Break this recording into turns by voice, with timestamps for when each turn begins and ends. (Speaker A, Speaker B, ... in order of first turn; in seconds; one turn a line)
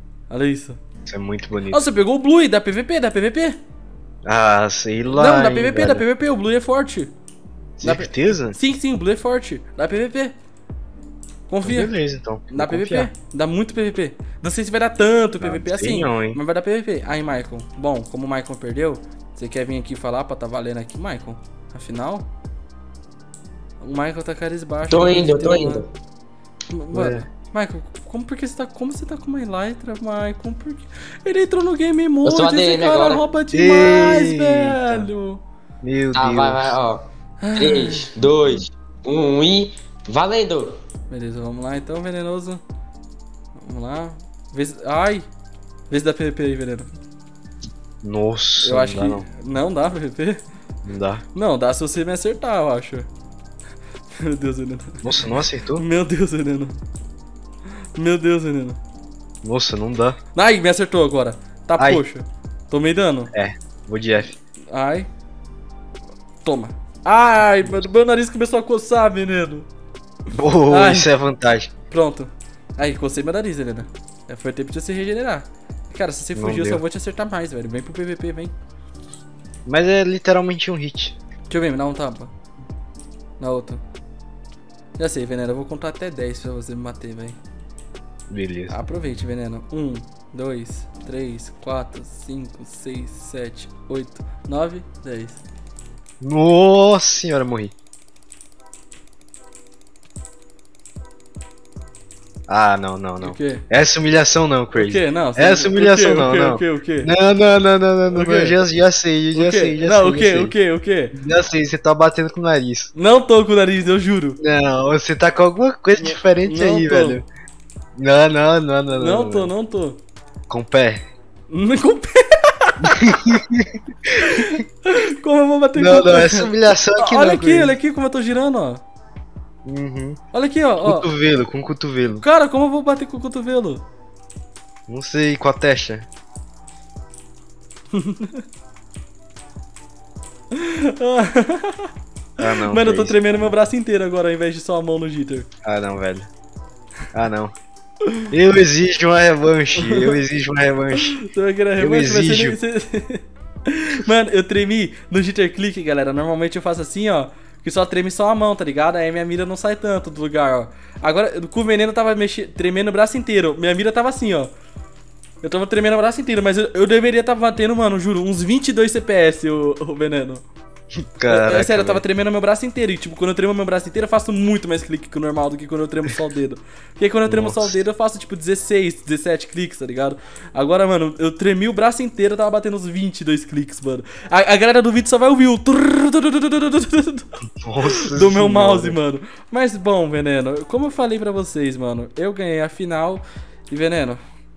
Speaker A: 0.3-0.8
Speaker B: 1.1-1.9
Speaker A: 1.7-3.6
Speaker B: 4.2-6.0
Speaker A: 5.1-7.1
Speaker B: 7.8-8.6
Speaker A: 7.8-10.3
Speaker A: 11.5-11.9
Speaker B: 11.6-13.1
Speaker A: 12.5-22.3
Speaker B: 15.4-16.4
Speaker A: 23.8-25.8
Speaker C: 24.9-25.9
Speaker A: 26.7-35.4
Speaker B: 26.9-27.2
Speaker C: 32.2-33.2
Speaker B: 33.5-35.1
Speaker B: 35.8-36.8
Speaker C: 36.1-37.0
Speaker A: 37.4-38.1
Speaker C: 37.6-40.8
Speaker A: 41.1-42.6
Speaker A: 43.6-45.2
Speaker A: 45.9-46.9
Speaker B: 48.0-49.2
Speaker A: 48.6-50.4
Speaker B: 50.9-51.2
Speaker A: 51.3-53.1
Speaker A: 54.1-56.8
Speaker B: 55.0-55.9
Speaker A: 58.0-58.8
Speaker B: 59.4-60.2
Speaker A: 60.4-63.3
Speaker B: 61.8-62.0
Speaker B: 63.3-64.3
Speaker A: 64.7-65.1
Speaker A: 66.4-69.7
Speaker B: 70.3-71.7
Speaker A: 70.7-71.1
Speaker A: 71.9-78.5
Speaker B: 76.3-76.8
Speaker B: 79.7-81.2
Speaker A: 81.5-82.3
Speaker A: 83.4-83.8
Speaker A: 85.0-87.4
Speaker B: 88.3-88.8
Speaker A: 88.7-95.4
Speaker B: 96.2-97.7
Speaker B: 102.5-110.5
Speaker A: 103.2-103.6
Speaker A: 104.8-107.1
Speaker A: 108.1-108.6
Speaker A: 109.3-111.1
Speaker B: 111.1-112.9
Speaker A: 113.0-114.4
Speaker B: 114.4-117.2
Speaker A: 116.0-117.2
Speaker B: 118.0-119.5
Speaker A: 118.9-120.0
Speaker B: 120.5-121.0
Speaker A: 121.5-123.4
Speaker B: 122.9-124.6
Speaker A: 124.0-128.8
Speaker B: 125.8-127.8
Speaker B: 129.7-130.2
Speaker A: 130.3-131.1
Speaker B: 130.8-132.2
Speaker A: 132.2-133.8
Speaker B: 134.9-136.1
Speaker A: 137.9-138.4
Speaker A: 140.5-141.9
Speaker B: 142.4-143.5
Speaker A: 142.6-145.5
Speaker B: 145.6-146.3
Speaker B: 147.1-147.5
Speaker B: 148.3-151.2
Speaker A: 149.8-150.2
Speaker A: 151.0-164.5
Speaker B: 151.8-152.6
Speaker A: 165.4-170.4
Speaker B: 171.0-172.0
Speaker A: 171.3-194.2
Speaker B: 177.2-177.8
Speaker B: 187.6-189.0